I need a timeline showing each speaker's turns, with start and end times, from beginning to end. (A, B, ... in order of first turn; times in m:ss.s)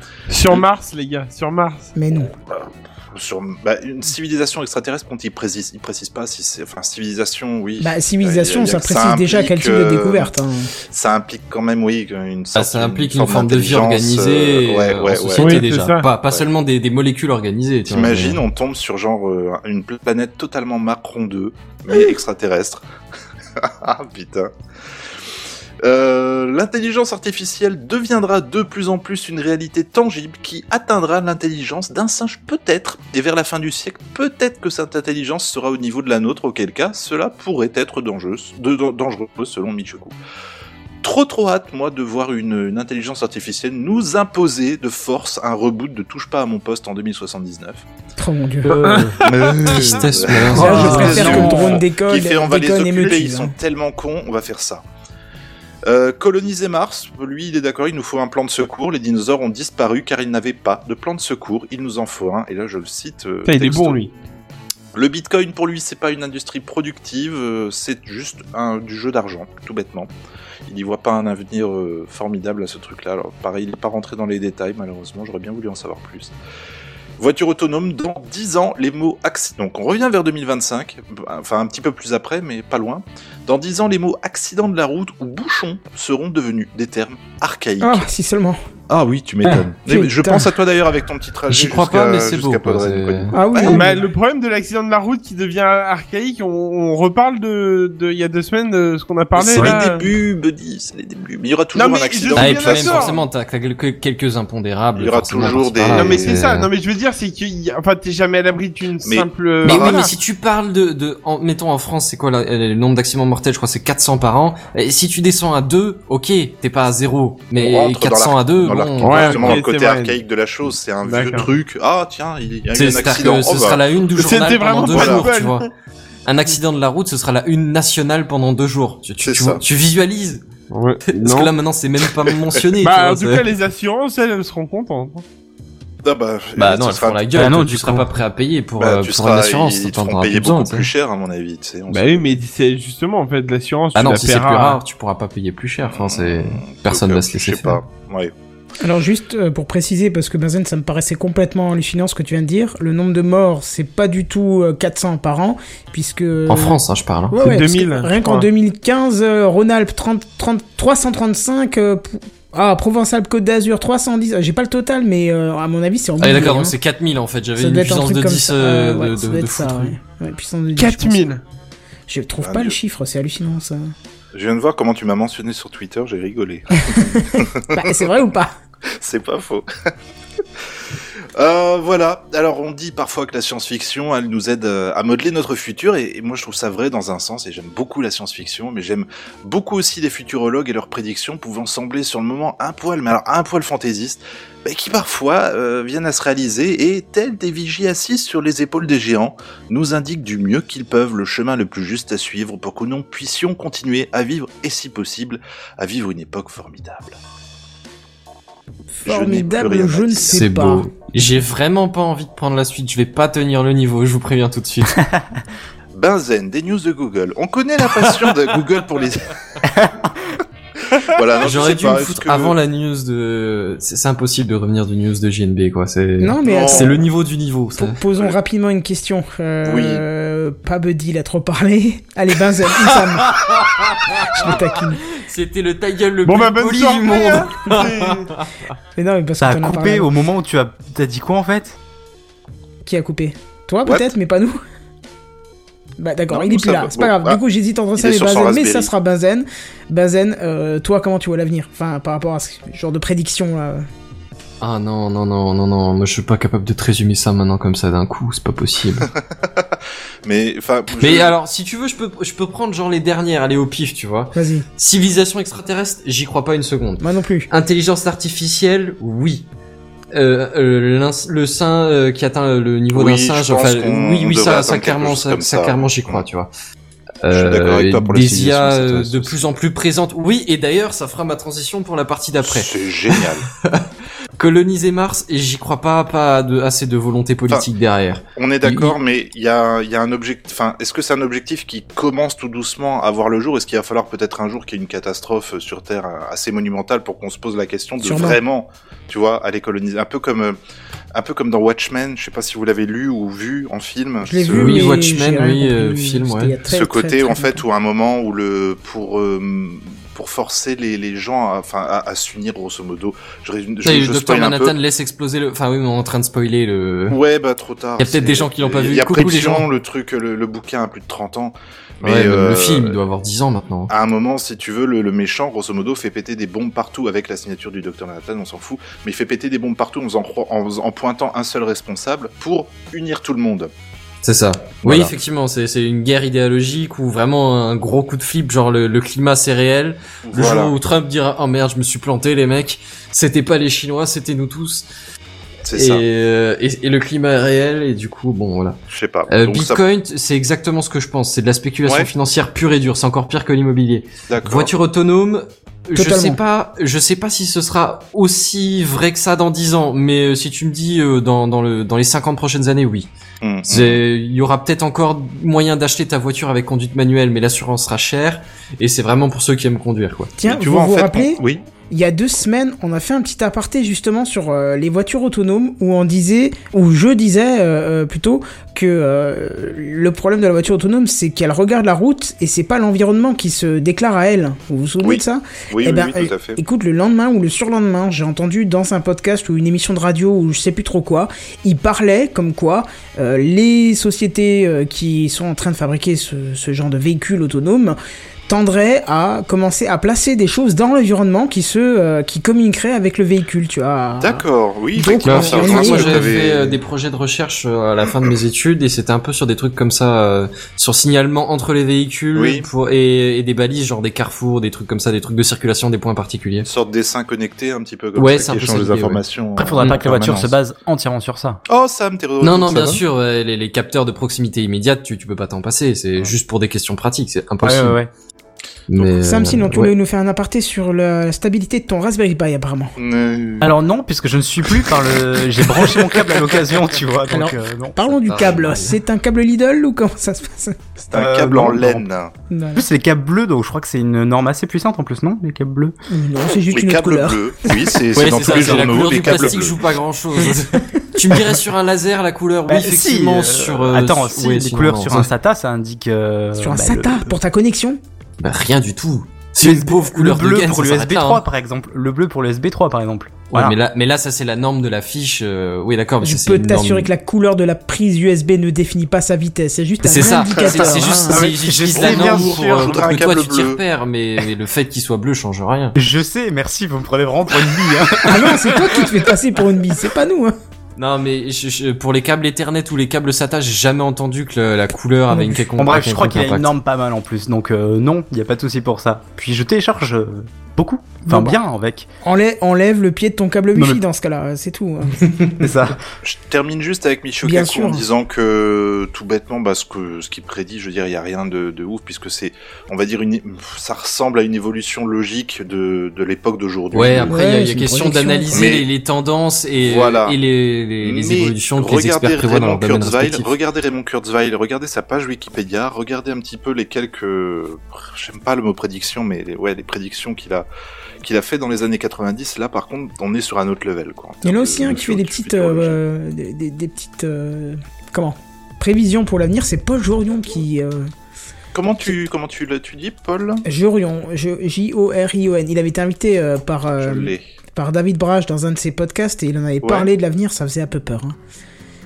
0:00.3-0:01.9 A
0:02.0-0:02.3 B
0:02.3-0:10.3 C
0:07.8-0:10.7 B
0:10.9-0:15.6 C
0:12.5-0:18.4 D
0:15.4-0:16.1 A
0:17.9-0:22.8 C
0:23.6-0:24.5 C
0:25.8-0:40.1 C
0:41.0-0:47.8 C
0:48.2-0:49.1 B
0:48.6-0:49.1 E
0:48.8-0:50.0 A
0:49.2-0:54.8 C
0:49.6-0:51.6 D
0:50.5-0:53.5 B
0:50.6-0:51.7 E
0:55.8-1:04.1 C
1:03.4-1:04.1 A
1:04.9-1:10.1 C
1:10.7-1:16.3 C
1:17.2-1:28.1 C
1:27.8-1:28.6 B
1:28.9-1:34.0 C
1:29.9-1:30.5 B
1:31.5-1:33.4 D
1:33.3-1:34.0 B
1:33.7-1:40.1 A
1:39.4-1:43.2 C
1:41.7-1:43.2 A
1:42.4-1:46.7 D
1:44.9-1:46.5 C
1:45.9-1:50.1 A
1:49.0-1:50.1 C
1:49.6-1:59.6 D
1:57.6-2:03.8 C
1:59.0-2:00.2 A
2:01.0-2:01.5 A
2:02.7-2:05.7 D
2:04.2-2:05.7 A
2:04.8-2:05.2 C
2:06.2-2:10.4 D
2:09.2-2:09.6 C
2:10.7-2:11.5 A
2:11.1-2:13.5 D
2:12.8-2:15.2 A
2:16.0-2:17.2 C
2:16.6-2:20.9 D
2:17.3-2:18.1 E
2:18.8-2:22.3 C
2:21.9-2:24.8 A
2:23.9-2:27.8 D
2:25.9-2:28.3 C
2:28.8-2:46.8 B
2:36.5-2:37.3 D
2:37.3-2:38.5 A
2:46.2-2:50.0 D
2:47.6-2:51.2 B
2:50.8-2:51.4 A
2:52.1-2:53.9 B
2:52.4-2:52.8 C
2:54.3-2:57.9 C
2:56.9-2:58.5 B
2:59.0-2:59.7 C
3:01.4-3:27.2 C
3:28.9-3:30.9 B
3:29.0-3:30.5 C
3:30.3-3:35.0 D
3:35.9-3:39.7 C
3:38.0-3:38.3 D
3:39.7-3:40.1 E
3:41.0-3:42.6 C
3:41.4-3:48.0 D
3:46.2-3:47.0 B
3:46.4-3:47.0 C
3:47.8-3:53.4 B
3:49.6-3:50.0 C
3:52.8-3:58.5 D
3:54.1-3:55.0 B
3:56.2-3:58.3 A
3:59.0-4:00.1 B
3:59.4-4:01.8 E
4:02.8-4:04.6 B
4:06.0-4:13.8 B
4:06.3-4:07.4 C
4:08.0-4:08.9 C
4:14.6-4:19.1 D
4:19.2-4:21.3 C
4:21.0-4:29.5 D
4:24.3-4:24.6 B
4:27.0-4:27.5 B
4:30.1-4:36.5 D
4:32.9-4:36.2 C
4:37.2-4:43.8 D
4:37.3-4:39.5 C
4:42.4-4:43.5 C
4:44.4-4:49.0 D
4:48.4-5:00.6 C
4:58.0-4:58.4 B
5:01.1-5:04.9 C
5:04.2-5:07.6 B
5:04.5-5:06.6 D
5:06.7-5:14.7 C
5:13.8-5:17.2 D
5:17.1-5:23.0 C
5:18.0-5:19.7 D
5:22.0-5:23.9 D
5:23.9-5:33.7 C
5:34.2-5:44.9 D
5:34.8-5:35.1 C
5:40.2-5:40.7 C
5:45.7-5:46.0 C
5:45.7-6:03.1 D
5:48.9-5:49.8 C
5:51.8-5:52.1 C
5:54.3-5:54.7 C
5:55.9-5:56.4 B
6:03.4-6:04.0 C
6:03.7-6:10.3 D
6:10.4-6:11.4 B
6:10.4-6:11.6 C
6:11.9-6:38.0 B
6:25.0-6:26.6 C
6:38.5-6:44.4 B
6:44.2-6:46.8 C
6:44.9-6:46.3 B
6:45.2-6:56.7 D
6:52.3-6:52.7 C
6:56.6-7:00.6 C
6:58.2-6:59.2 D
6:59.6-7:01.6 E
7:01.7-7:03.0 C
7:02.4-7:08.0 D
7:07.6-7:08.1 E
7:08.9-7:09.9 D
7:09.2-7:12.9 B
7:13.0-7:13.7 C
7:13.6-7:18.2 E
7:15.7-7:16.7 C
7:17.3-7:20.8 B
7:18.3-7:19.0 D
7:21.0-7:22.3 C
7:21.1-7:22.0 E
7:22.5-7:22.8 B
7:22.7-7:25.9 E
7:26.1-7:28.0 B
7:26.7-7:29.9 C
7:28.1-7:35.3 D
7:32.7-7:37.4 E
7:36.6-7:38.0 B
7:38.4-7:41.4 D
7:39.6-7:43.8 E
7:43.5-7:47.1 D
7:46.2-7:51.5 B
7:50.0-7:53.0 E
7:50.1-7:56.0 D
7:51.9-7:53.8 C
7:56.0-7:58.6 E
7:58.2-8:00.5 B
7:58.8-7:59.0 D
8:01.0-8:06.7 D
8:05.3-8:05.6 B
8:05.8-8:12.1 E
8:11.3-8:11.6 B
8:12.2-8:15.6 B
8:13.8-8:14.0 E
8:15.2-8:16.0 E
8:16.2-8:27.3 C
8:17.4-8:18.1 B
8:26.9-8:33.5 D
8:27.3-8:28.6 B
8:28.5-8:28.8 C
8:29.8-8:30.4 C
8:31.0-8:40.7 C
8:41.2-8:46.0 C
8:44.4-8:51.1 B
8:51.7-8:53.6 C
8:53.6-9:01.4 B
8:57.0-8:57.4 C
8:59.8-9:00.1 C